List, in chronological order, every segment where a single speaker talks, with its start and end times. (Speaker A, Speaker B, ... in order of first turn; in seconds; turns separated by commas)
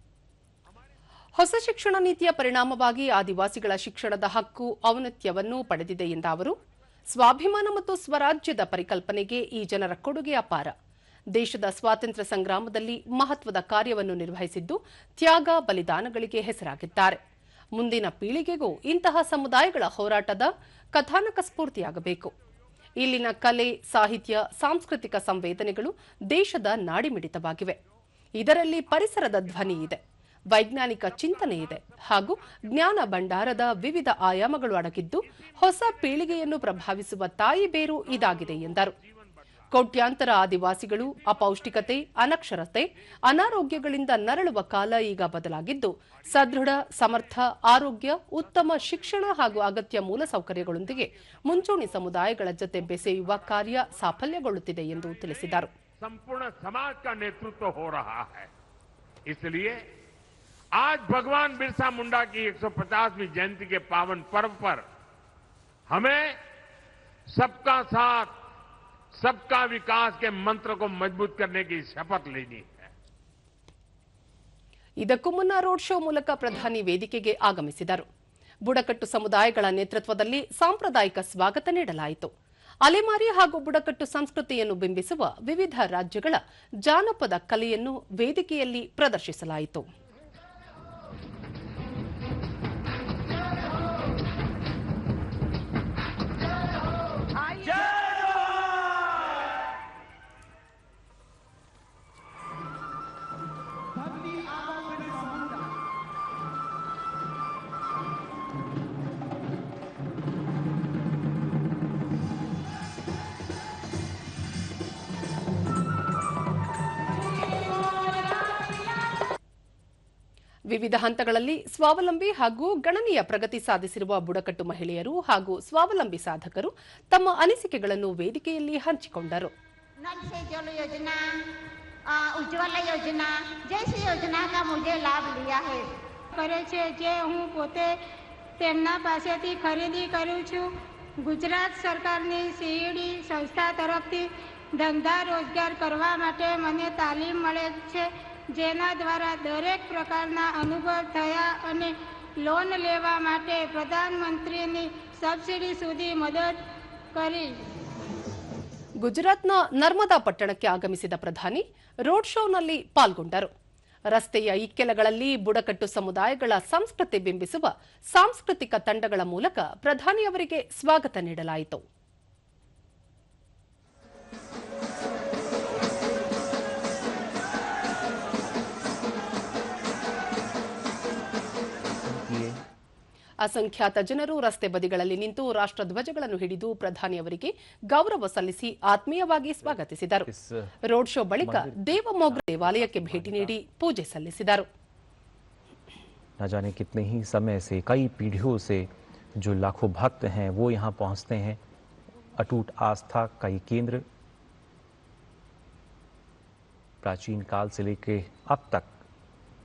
Speaker A: 1.4-6.6, Speaker A: 7.1-10.7, Speaker A: 11.4-17.2, Speaker A: 17.8-22.3, Speaker A: 23.0-27.8, Speaker A: 28.4-30.0, Speaker A: 30.5-38.9, Speaker B: 38.1-39.6, Speaker A: 39.7-55.7, Speaker B: 41.4-41.8, Speaker B: 46.4-46.8, Speaker B: 48.7-49.4, Speaker B: 53.1-53.6, Speaker B: 56.0-58.5, Speaker B: 59.3-59.8, Speaker B: 60.8-64.8, Speaker B: 65.9-66.3, Speaker B: 67.3-68.3, Speaker B: 69.2-72.9, Speaker A: 75.0-78.0, Speaker A: 78.7-82.3, Speaker A: 82.9-89.9, Speaker A: 120.7-129.5, Speaker C: 130.0-131.4, Speaker C: 132.1-135.9, Speaker D: 136.3-138.0, Speaker D: 138.6-140.7, Speaker D: 141.2-156.6, Speaker D: 157.1-157.6, Speaker A: 159.0-163.5, Speaker A: 164.1-171.8, Speaker E: 181.8-182.6, Speaker A: 183.4-190.3, Speaker E: 190.3-190.7, Speaker A: 190.9-194.7, Speaker E: 191.4-193.6, Speaker E: 196.4-201.6, Speaker E: 202.4-204.0, Speaker E: 207.0-209.0